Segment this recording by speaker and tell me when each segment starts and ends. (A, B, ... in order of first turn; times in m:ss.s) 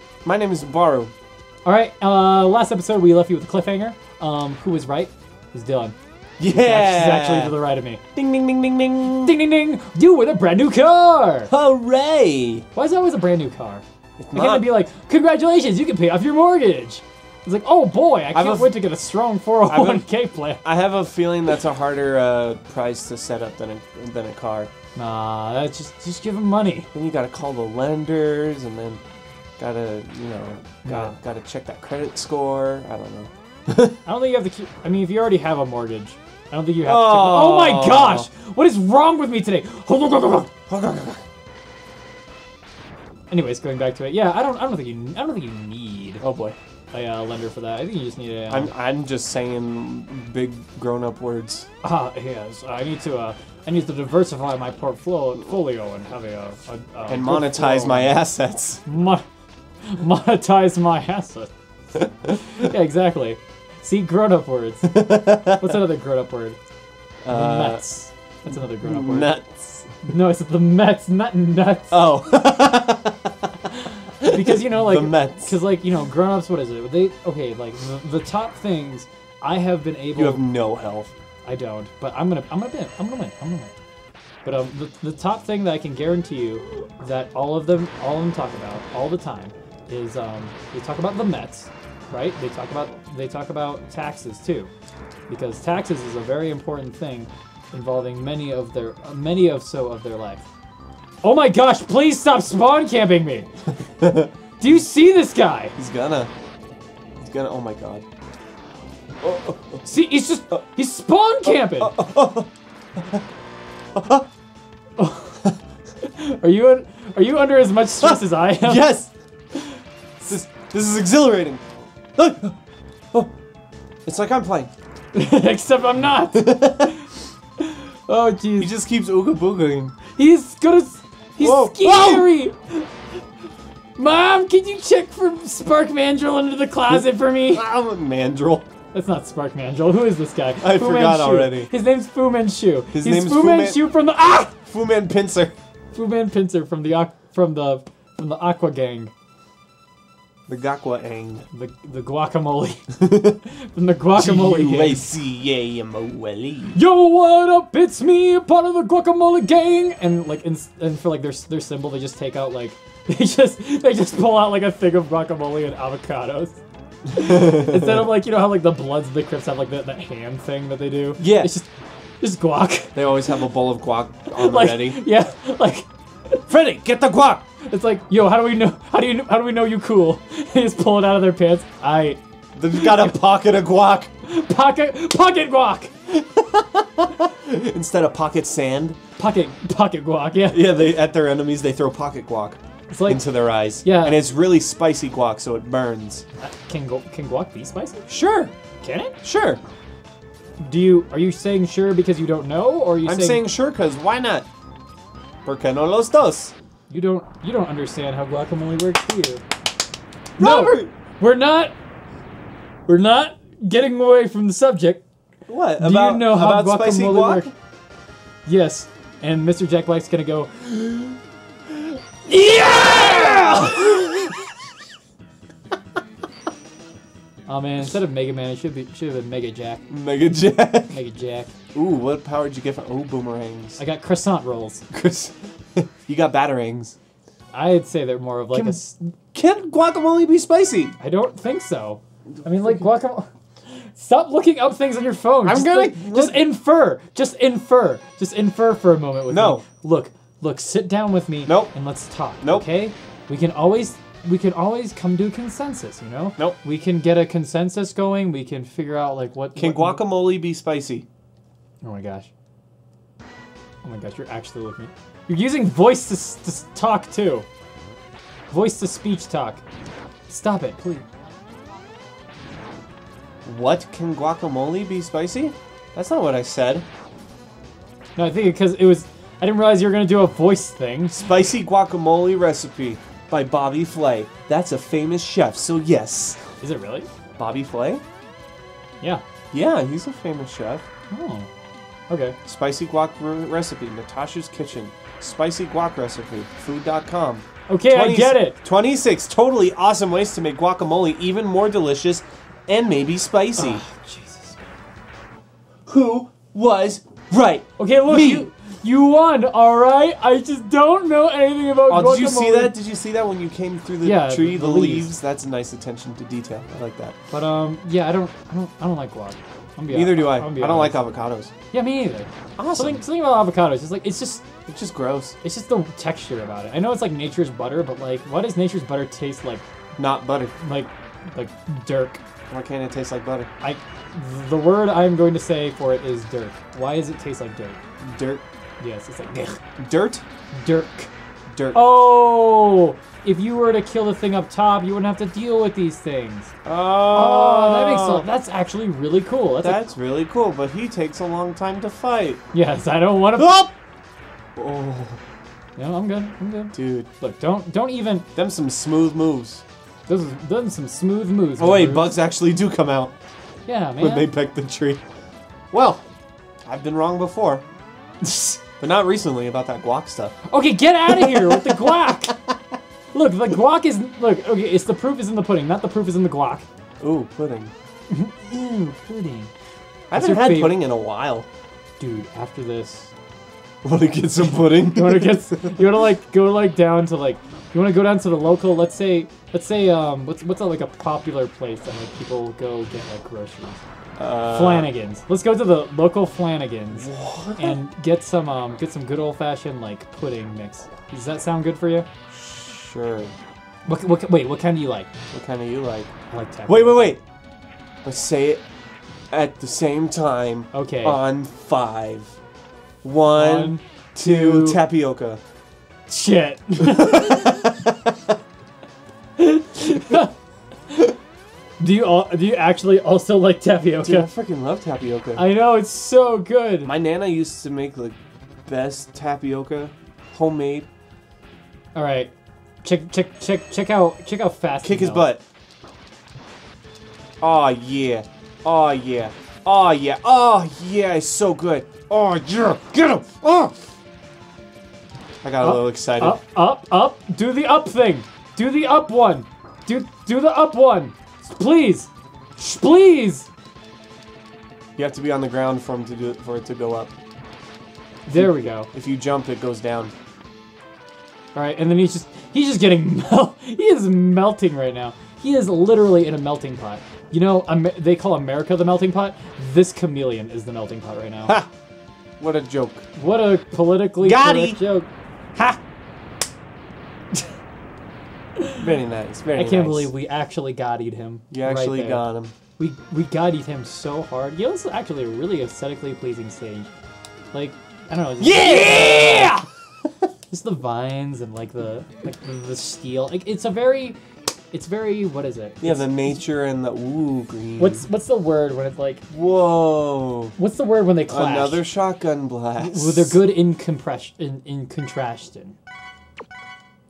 0:00.2-0:01.1 A
0:01.6-0:06.0 B
0:06.4-0:07.6 A
0:06.5-0:08.0 B
0:08.2-0:09.4 A
0:09.2-0:11.5 B
0:11.5-0:12.6 A
0:12.7-0:20.6 B
0:14.2-0:14.7 A
0:18.3-0:18.8 A
0:19.7-0:20.1 A
0:20.6-0:24.7 A
0:25.0-0:26.9 B
0:26.9-0:29.0 A
0:29.6-0:34.0 A
0:30.8-0:31.1 B
0:34.0-0:40.5 B
0:36.8-0:38.3 A
0:40.7-0:41.2 A
0:43.3-0:46.2 B
0:46.2-0:46.6 A
0:46.9-0:48.7 B
0:48.5-0:51.7 A
0:51.8-0:58.2 B
0:57.1-0:58.8 A
0:58.9-0:59.2 B
0:59.8-1:01.5 B
1:02.0-1:02.4 A
1:02.4-1:06.6 B
1:04.8-1:05.8 A
1:07.2-1:07.8 A
1:07.3-1:09.3 B
1:08.5-1:10.0 A
1:10.0-1:12.0 B
1:11.9-1:15.5 A
1:14.2-1:20.4 B
1:20.2-1:21.1 A
1:21.4-1:23.7 B
1:24.4-1:34.7 B
1:35.3-1:40.4 B
1:41.2-1:43.5 B
1:44.0-1:44.3 A
1:44.6-1:45.8 B
1:45.8-1:46.3 A
1:47.2-1:48.0 A
1:49.2-1:49.8 A
1:49.8-1:52.0 B
1:51.5-1:53.2 A
1:54.0-1:54.3 A
1:55.0-1:55.4 B
1:56.0-1:58.9 B
1:58.0-1:59.1 A
2:00.2-2:01.6 A
2:02.2-2:02.5 A
2:04.0-2:04.7 A
2:05.1-2:07.1 B
2:06.3-2:07.0 A
2:07.6-2:08.7 B
2:08.6-2:10.0 A
2:10.2-2:12.9 B
2:11.4-2:12.3 A
2:14.0-2:17.6 B
2:16.9-2:18.7 A
2:18.9-2:24.5 B
2:20.6-2:21.7 A
2:22.9-2:23.8 A
2:24.6-2:25.5 A
2:25.9-2:29.1 B
2:30.5-2:31.4 A
2:31.5-2:35.1 B
2:33.0-2:33.4 A
2:34.2-2:36.8 A
2:36.7-2:46.6 B
2:47.1-2:51.7 B
2:47.2-2:48.0 A
2:51.2-2:51.5 A
2:52.2-2:53.0 B
2:53.0-2:55.0 A
2:54.3-2:56.4 B
2:56.5-2:57.4 A
2:57.6-3:02.2 B
3:02.6-3:04.1 A
3:02.7-3:03.1 B
3:04.2-3:05.9 B
3:06.4-3:09.0 A
3:09.2-3:10.7 B
3:10.5-3:16.3 A
3:12.9-3:13.2 B
3:13.8-3:14.2 B
3:16.4-3:18.1 B
3:18.1-3:18.5 A
3:18.8-3:19.2 B
3:19.2-3:19.6 A
3:20.6-3:23.4 B
3:23.0-3:24.5 A
3:25.4-3:26.5 A
3:26.9-3:29.4 B
3:30.4-3:30.9 A
3:30.4-3:31.7 B
3:32.9-3:35.0 B
3:35.5-3:37.5 A
3:35.8-3:37.5 B
3:38.5-3:41.2 B
3:41.7-3:44.3 B
3:42.6-3:44.0 A
3:47.5-3:49.8 B
3:49.9-3:51.0 A
3:50.9-3:51.5 B
3:51.7-3:53.8 A
3:53.8-3:54.8 B
3:54.9-3:57.0 A
3:57.5-3:59.0 B
3:58.5-4:01.0 A
4:01.0-4:20.0 B
4:02.6-4:02.8 A
4:05.4-4:06.4 A
4:09.3-4:09.6 A
4:11.5-4:11.7 A
4:12.4-4:12.7 A
4:19.6-4:21.1 A
4:21.8-4:22.3 B
4:23.8-4:27.5 B
4:28.5-4:29.6 B
4:30.3-4:31.1 B
4:33.5-4:36.8 A
4:38.2-4:41.2 B
4:41.1-4:46.4 A
4:46.6-4:47.1 B
4:47.4-4:48.0 A
4:49.5-4:50.8 A
4:51.1-4:51.5 B
4:52.1-4:52.4 B
4:52.4-5:03.8 A
4:57.7-4:58.6 B
5:03.6-5:04.6 B
5:05.9-5:08.5 A
5:07.8-5:12.8 B
5:11.9-5:17.2 A
5:14.0-5:15.1 B
5:17.3-5:21.0 B
5:19.9-5:21.5 A
5:21.7-5:24.4 B
5:22.6-5:23.0 A
5:24.7-5:25.4 A
5:25.4-5:29.6 B
5:30.0-5:30.6 A
5:30.6-5:32.2 B
5:32.5-5:33.5 A
5:33.6-5:37.8 B
5:38.0-5:38.5 A
5:38.8-5:39.6 B
5:39.8-5:40.2 A
5:40.5-5:41.1 B
5:41.5-5:41.9 A
5:41.7-5:46.5 B
5:46.6-5:48.3 A
5:47.1-5:49.9 B
5:49.6-5:52.4 A
5:52.5-5:53.6 B
5:53.3-5:53.7 A
5:54.6-5:55.2 A
5:55.8-5:58.3 B
5:56.7-5:57.1 A
5:58.4-5:59.6 A
6:00.1-6:02.1 B
6:01.6-6:03.1 A
6:03.7-6:04.3 B
6:04.0-6:05.0 A
6:05.7-6:06.0 A
6:06.7-6:07.6 A
6:08.6-6:10.4 A
6:10.5-6:12.4 B
6:11.1-6:12.3 A
6:13.1-6:16.6 B
6:17.0-6:17.7 A
6:18.1-6:19.5 B
6:20.1-6:21.5 A
6:20.1-6:20.8 B
6:22.0-6:23.1 B
6:23.8-6:25.8 A
6:24.7-6:33.8 B
6:34.2-6:34.9 A
6:34.5-6:42.1 B
6:37.0-6:37.8 A
6:42.3-6:43.3 A
6:43.9-6:45.1 B
6:45.3-6:46.1 A
6:46.3-6:47.2 B
6:46.7-6:47.2 A
6:48.0-6:48.6 A
6:49.3-6:52.3 A
6:50.7-6:51.2 B
6:53.0-6:55.4 A
6:53.3-6:54.8 B
6:56.1-6:57.7 B
6:57.2-6:57.8 A
6:59.4-7:00.3 B
7:01.8-7:04.3 B
7:04.0-7:05.4 A
7:05.4-7:06.9 B
7:06.8-7:10.9 A
7:12.0-7:12.3 B
7:12.8-7:15.3 B
7:14.8-7:15.4 A
7:17.4-7:23.8 A
7:25.4-7:26.4 A
7:25.6-7:33.5 B
7:35.0-7:37.1 A
7:38.3-7:38.9 B
7:38.3-7:40.1 A
7:41.5-7:51.6 B
7:52.4-7:53.1 A
7:53.2-7:55.8 B
7:54.2-7:54.8 A
7:58.8-8:00.1 A
7:59.6-8:02.3 B
8:01.5-8:02.5 A
8:02.8-8:06.9 B
8:07.5-8:09.7 B
8:08.4-8:09.6 A
8:10.5-8:14.2 B
8:14.7-8:16.1 B
8:15.8-8:18.1 A
8:17.8-8:19.2 B
8:19.3-8:20.6 A
8:20.6-8:21.8 B
8:21.3-8:23.4 A
8:22.8-8:25.8 B